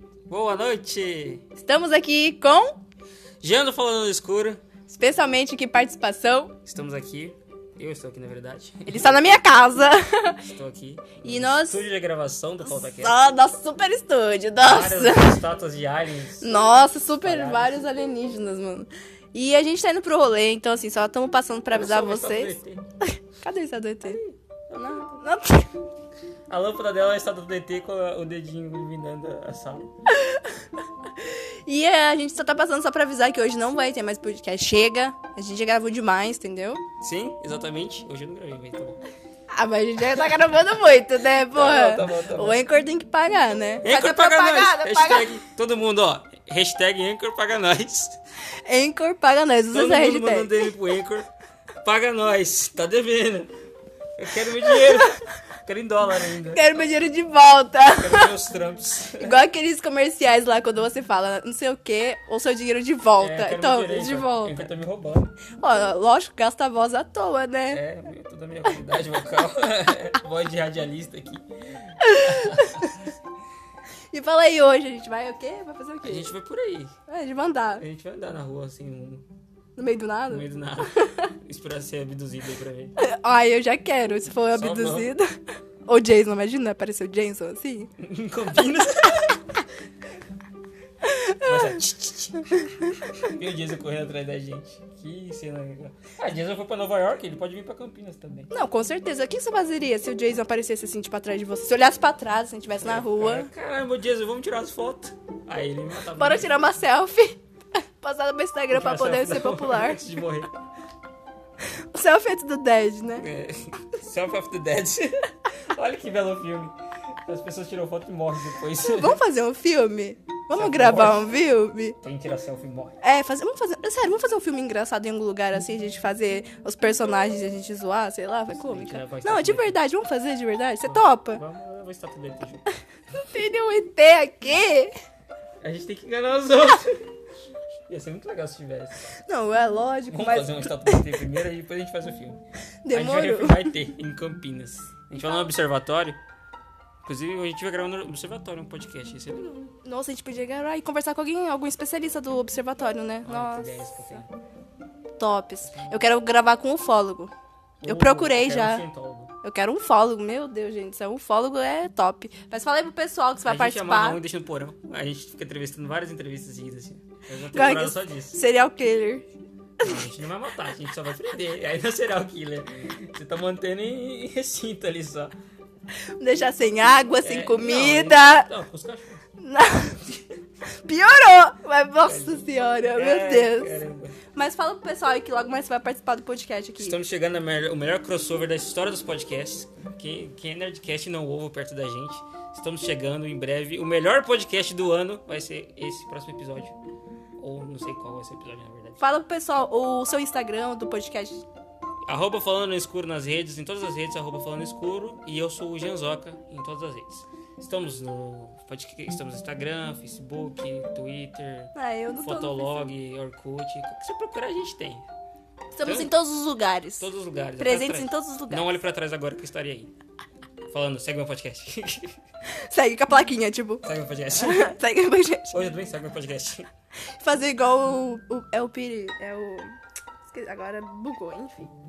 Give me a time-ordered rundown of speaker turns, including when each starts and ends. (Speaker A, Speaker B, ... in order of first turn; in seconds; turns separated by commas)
Speaker A: 0.3-1.4, Speaker B: 1.6-2.8, Speaker A: 3.4-4.6, Speaker B: 4.9-6.5, Speaker A: 6.7-9.2, Speaker B: 8.9-10.4, Speaker A: 10.4-13.2, Speaker B: 11.2-11.8, Speaker B: 12.6-15.4, Speaker A: 14.6-17.8, Speaker B: 16.4-24.2, Speaker A: 21.7-22.8, Speaker A: 24.0-25.2, Speaker B: 24.7-25.7, Speaker A: 26.5-29.9, Speaker B: 30.1-30.6, Speaker B: 31.2-36.8, Speaker A: 37.0-39.0, Speaker B: 39.5-45.3, Speaker A: 41.5-42.6, Speaker A: 43.8-48.2, Speaker B: 48.6-50.6, Speaker A: 49.7-51.3, Speaker A: 51.8-53.5, Speaker A: 54.2-56.6, Speaker B: 56.5-58.3, Speaker A: 57.9-59.4, Speaker B: 59.2-64.7, Speaker A: 63.2-65.4, Speaker B: 65.6-67.8, Speaker A: 67.7-73.1, Speaker B: 72.0-72.9, Speaker B: 74.1-76.3, Speaker A: 76.0-76.9, Speaker B: 77.1-77.8, Speaker A: 77.8-79.2, Speaker B: 79.8-80.5, Speaker A: 80.3-82.9, Speaker B: 83.0-85.2, Speaker A: 84.3-85.1, Speaker B: 85.9-87.9, Speaker A: 88.0-89.4, Speaker B: 91.0-91.8, Speaker A: 91.4-98.5, Speaker B: 98.5-103.5, Speaker A: 102.8-106.5, Speaker B: 106.1-107.4, Speaker B: 108.0-110.0, Speaker A: 108.7-110.5, Speaker B: 111.9-113.2, Speaker A: 113.2-119.2, Speaker B: 118.9-122.0, Speaker A: 120.5-121.2, Speaker A: 122.0-123.0, Speaker B: 123.0-131.4, Speaker A: 128.5-129.8, Speaker A: 130.8-132.7, Speaker B: 133.2-134.9, Speaker A: 135.6-137.1, Speaker A: 137.9-139.1, Speaker B: 139.2-141.1, Speaker A: 140.1-142.4, Speaker B: 142.8-143.7, Speaker A: 142.9-146.2, Speaker A: 147.0-149.7, Speaker B: 149.7-154.2, Speaker A: 153.2-154.3, Speaker B: 155.2-157.3, Speaker A: 155.7-156.0, Speaker A: 157.8-159.3, Speaker B: 157.8-158.8, Speaker B: 159.4-164.2, Speaker A: 163.4-168.4, Speaker B: 167.5-169.2, Speaker A: 169.8-175.3, Speaker B: 176.2-178.5, Speaker A: 177.2-179.2, Speaker B: 179.4-180.2, Speaker B: 180.8-183.8, Speaker A: 182.0-184.2, Speaker B: 184.3-186.9, Speaker A: 186.8-196.8, Speaker A: 197.4-199.0, Speaker B: 199.0-201.4, Speaker A: 202.1-215.0, Speaker B: 211.7-212.7, Speaker B: 215.8-217.1, Speaker A: 215.8-216.1, Speaker A: 217.0-219.9, Speaker B: 217.6-218.8, Speaker A: 220.7-222.2, Speaker B: 222.6-223.8, Speaker A: 223.8-224.8, Speaker B: 224.3-225.5, Speaker A: 225.5-226.7, Speaker B: 227.2-229.7, Speaker B: 230.3-231.7